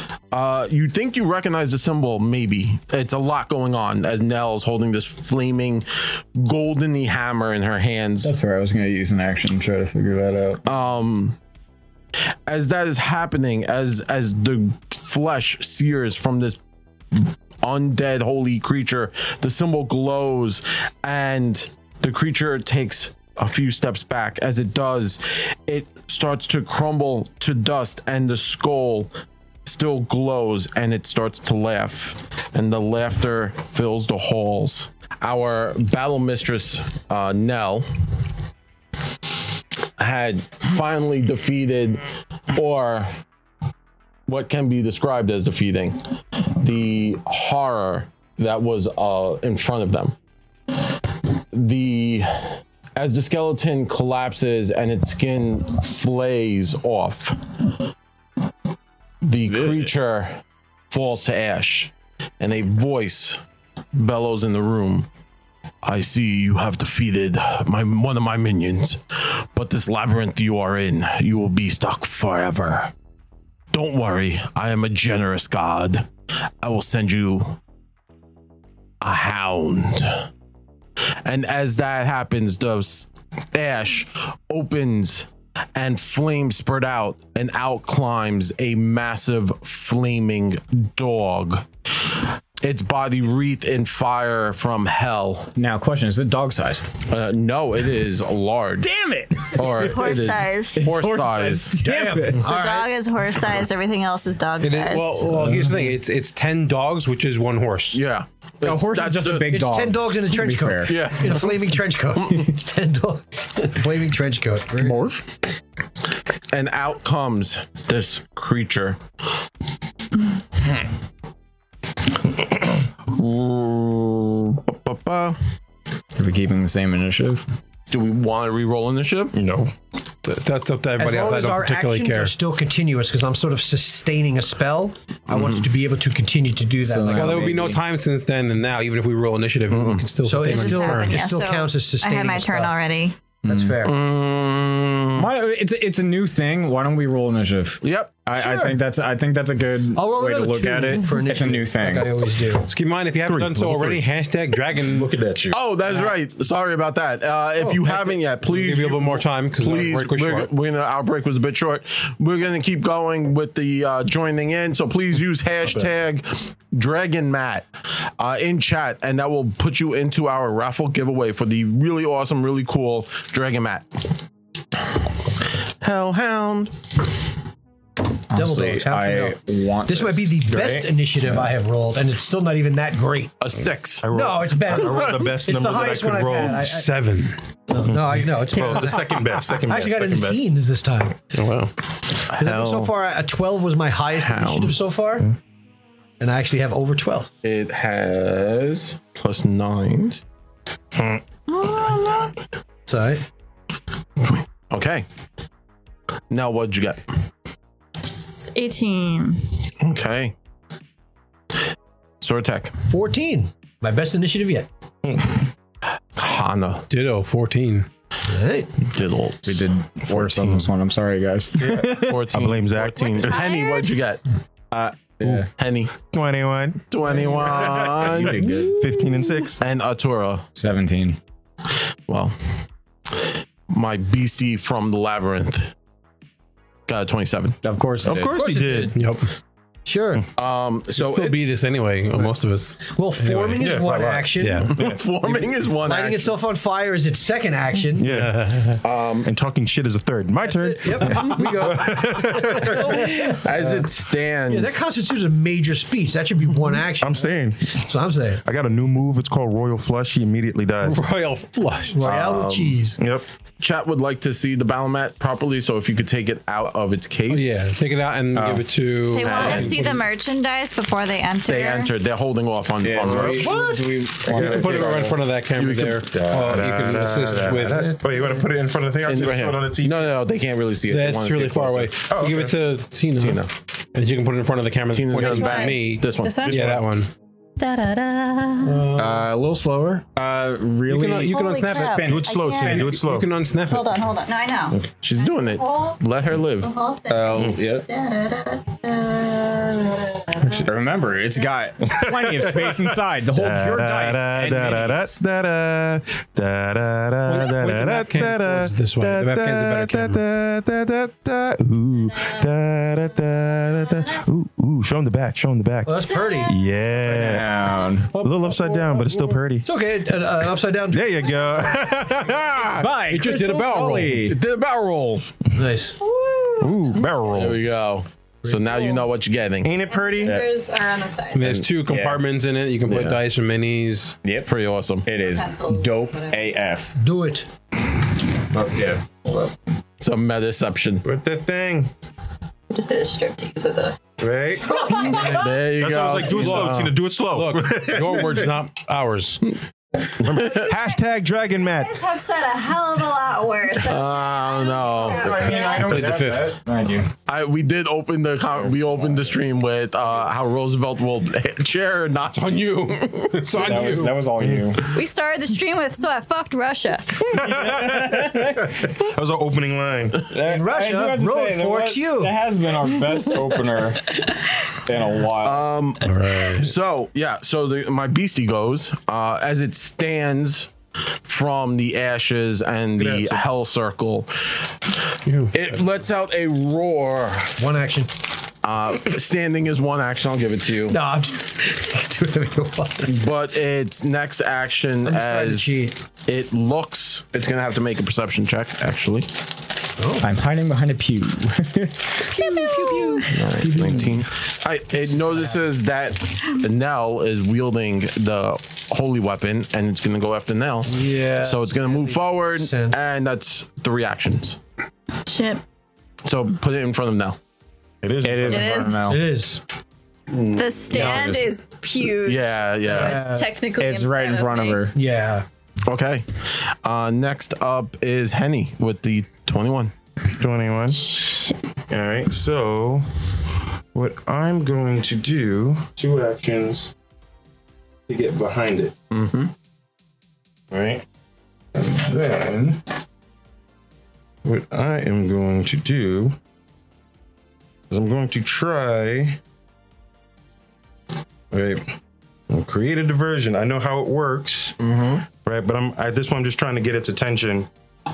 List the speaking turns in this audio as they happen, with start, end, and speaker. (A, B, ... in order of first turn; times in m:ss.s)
0:00.3-0:08.3 A
0:08.2-0:10.6 B
0:10.6-0:11.4 A
0:12.5-0:16.6 A
0:17.1-0:29.1 A
0:29.7-0:37.9 A
0:40.0-0:43.1 A
0:44.3-0:46.0 A
0:46.5-0:50.2 A
0:51.5-0:57.4 A
0:59.2-1:03.4 A
0:59.5-0:59.9 B
1:03.9-1:05.1 A
1:05.8-1:12.9 A
1:13.7-1:16.1 A
1:16.6-1:17.6 A
1:19.0-1:20.3 A
1:21.2-1:31.7 A
1:32.6-1:35.6 A
1:35.6-1:36.9 B
1:37.1-1:38.9 A
1:38.8-1:40.2 B
1:39.5-1:41.8 A
1:39.6-1:40.9 C
1:40.7-1:42.5 B
1:41.8-1:42.9 D
1:42.4-1:45.3 C
1:44.6-1:48.0 E
1:45.3-1:45.9 B
1:47.9-1:49.6 A
1:48.6-1:51.0 B
1:49.5-1:55.0 D
1:50.8-1:52.5 A
1:54.8-1:55.2 B
1:56.5-1:59.0 A
2:03.1-2:05.4 A
2:06.2-2:07.4 B
2:07.9-2:09.4 A
2:09.3-2:09.7 F
2:10.2-2:12.3 E
2:11.0-2:17.7 D
2:15.4-2:15.6 A
2:16.8-2:17.8 B
2:17.1-2:21.2 E
2:19.7-2:20.0 A
2:20.2-2:22.8 D
2:20.4-2:23.2 C
2:23.4-2:23.9 D
2:23.4-2:23.7 B
2:23.8-2:25.4 A
2:25.2-2:32.2 B
2:27.8-2:28.1 A
2:28.4-2:28.7 D
2:29.9-2:32.7 D
2:32.7-2:35.1 E
2:33.2-2:34.0 F
2:34.8-2:35.6 F
2:35.5-2:47.7 A
2:37.8-2:40.5 E
2:48.2-2:54.0 A
2:55.8-2:56.7 A
2:58.3-3:00.3 B
2:58.3-3:03.3 D
3:00.4-3:00.9 F
3:03.4-3:04.0 A
3:04.0-3:10.5 F
3:04.1-3:06.9 D
3:04.8-3:05.2 A
3:07.7-3:11.2 D
3:08.8-3:09.0 E
3:11.3-3:11.7 E
3:12.3-3:15.3 D
3:12.3-3:12.9 A
3:14.2-3:14.8 A
3:16.2-3:17.3 D
3:17.4-3:20.2 A
3:20.9-3:21.2 F
3:21.5-3:22.4 C
3:22.9-3:23.2 D
3:24.7-3:25.1 A
3:26.3-3:27.0 A
3:28.4-3:29.6 C
3:29.8-3:30.4 A
3:32.2-3:32.7 A
3:32.9-3:34.7 D
3:35.0-3:35.4 F
3:36.2-3:36.9 A
3:36.9-3:37.9 E
3:38.2-3:38.7 D
3:38.8-3:39.7 A
3:39.4-3:42.2 B
3:40.1-3:40.7 F
3:41.6-3:43.4 F
3:41.9-3:44.2 A
3:43.1-3:43.9 C
3:44.7-3:45.5 B
3:45.4-3:45.9 A
3:46.0-3:49.6 F
3:46.9-3:48.4 A
3:47.4-3:49.0 B
3:48.4-3:49.3 D
3:49.6-3:50.4 A
3:50.6-3:51.2 B
3:52.1-3:52.4 A
3:53.7-3:55.7 A
3:56.9-3:57.6 A
3:57.6-3:58.4 B
3:58.0-3:59.0 F
3:58.3-3:59.0 D
3:58.9-3:59.3 E
3:59.8-4:00.2 D
4:00.4-4:01.4 A
4:00.9-4:03.6 E
4:02.8-4:04.7 D
4:03.6-4:05.0 F
4:04.4-4:04.7 E
4:04.6-4:06.4 A
4:05.8-4:08.1 D
4:08.0-4:13.3 F
4:08.0-4:08.8 E
4:08.7-4:09.3 A
4:10.4-4:13.9 D
4:12.8-4:14.8 A
4:14.4-4:18.4 D
4:17.0-4:17.8 F
4:18.4-4:21.1 F
4:20.8-4:22.0 E
4:21.9-4:23.0 D
4:22.0-4:22.8 A
4:23.0-4:23.2 F
4:23.6-4:27.6 A
4:27.3-4:30.0 E
4:28.3-4:28.6 B
4:29.1-4:31.9 C
4:29.2-4:29.8 A
4:29.3-4:29.7 B
4:31.4-4:33.5 A
4:32.8-4:35.2 B
4:33.2-4:33.6 F
4:33.4-4:34.0 D
4:34.2-4:38.0 E
4:34.3-4:35.0 F
4:35.5-4:37.4 A
4:36.1-4:40.2 F
4:39.1-4:41.9 A
4:40.9-4:47.1 E
4:42.1-4:42.6 F
4:43.2-4:43.5 A
4:44.9-4:46.4 A
4:45.2-4:46.7 C
4:46.4-4:46.9 F
4:47.6-4:48.9 C
4:48.7-4:49.3 E
4:48.9-4:53.0 B
4:50.8-4:53.9 E
4:51.3-4:53.0 C
4:52.0-4:53.3 F
4:53.7-4:56.0 C
4:55.0-4:56.7 A
4:56.6-5:00.6 C
4:57.1-4:57.9 B
5:00.4-5:00.7 E
5:00.6-5:05.1 B
5:01.8-5:17.6 F
5:04.6-5:05.0 E
5:07.2-5:10.2 E
5:15.8-5:16.6 D
5:16.2-5:16.5 C
5:16.9-5:19.3 B
5:18.2-5:19.7 F
5:19.6-5:21.7 D
5:20.9-5:23.0 F
5:22.7-5:24.4 B
5:23.1-5:25.2 A
5:25.6-5:26.0 D
5:26.0-5:27.0 C
5:26.6-5:27.0 B
5:26.8-5:27.6 F
5:27.0-5:29.8 A
5:28.4-5:29.0 D
5:29.6-5:30.4 F
5:29.9-5:31.5 C
5:31.3-5:34.2 E
5:31.8-5:32.2 B
5:32.9-5:33.2 A
5:34.2-5:34.5 B
5:34.4-5:35.1 A
5:35.1-5:36.9 B
5:35.2-5:36.4 C
5:37.0-5:37.5 D
5:38.5-5:39.0 F
5:40.0-5:41.0 A
5:41.0-5:41.9 F
5:42.7-5:44.0 C
5:44.2-5:48.6 F
5:44.6-5:45.5 C
5:45.0-5:46.9 A
5:46.3-5:46.7 E
5:47.3-5:49.5 E
5:50.2-5:50.7 A
5:50.2-5:52.0 F
5:51.8-5:56.1 C
5:53.8-5:55.7 A
5:55.1-5:57.1 B
5:55.6-5:56.6 E
5:57.2-6:03.6 A
5:58.7-5:59.3 B
6:02.3-6:04.2 E
6:03.5-6:04.9 B
6:03.5-6:04.8 F
6:04.8-6:07.3 C
6:07.2-6:08.8 B
6:07.3-6:10.3 F
6:10.3-6:14.2 B
6:10.4-6:12.4 D
6:14.8-6:15.7 B
6:15.4-6:20.7 A
6:16.0-6:16.7 E
6:21.2-6:24.3 A
6:23.0-6:23.4 F
6:25.2-6:25.6 E
6:25.5-6:27.6 A
6:27.6-6:28.1 D
6:28.6-6:31.0 A
6:30.9-6:33.2 D
6:33.0-6:39.3 A
6:35.0-6:36.0 D
6:40.0-6:40.4 D
6:40.2-6:42.2 B
6:42.2-6:44.2 D
6:42.4-6:43.3 C
6:43.3-6:54.6 A
6:45.2-6:45.6 D
6:50.8-6:53.0 D
6:55.2-6:55.6 C
6:56.2-6:57.4 A
6:58.0-6:59.0 F
6:58.2-6:59.2 B
6:58.4-6:59.1 C
6:59.1-6:59.6 D
7:00.3-7:01.3 A
7:00.5-7:04.8 C
7:00.9-7:01.5 B
7:02.2-7:03.3 A
7:02.8-7:03.5 D
7:03.8-7:05.0 B
7:04.9-7:05.4 D
7:05.9-7:09.9 A
7:10.3-7:11.4 F
7:11.9-7:13.1 F
7:13.9-7:16.9 F
7:18.1-7:18.9 F
7:19.1-7:19.5 A
7:20.7-7:21.0 F
7:21.7-7:22.8 F
7:24.4-7:26.4 F
7:27.9-7:29.4 F
7:31.5-7:32.0 F
7:32.5-7:34.8 F
7:34.8-7:35.2 A
7:35.3-7:37.7 F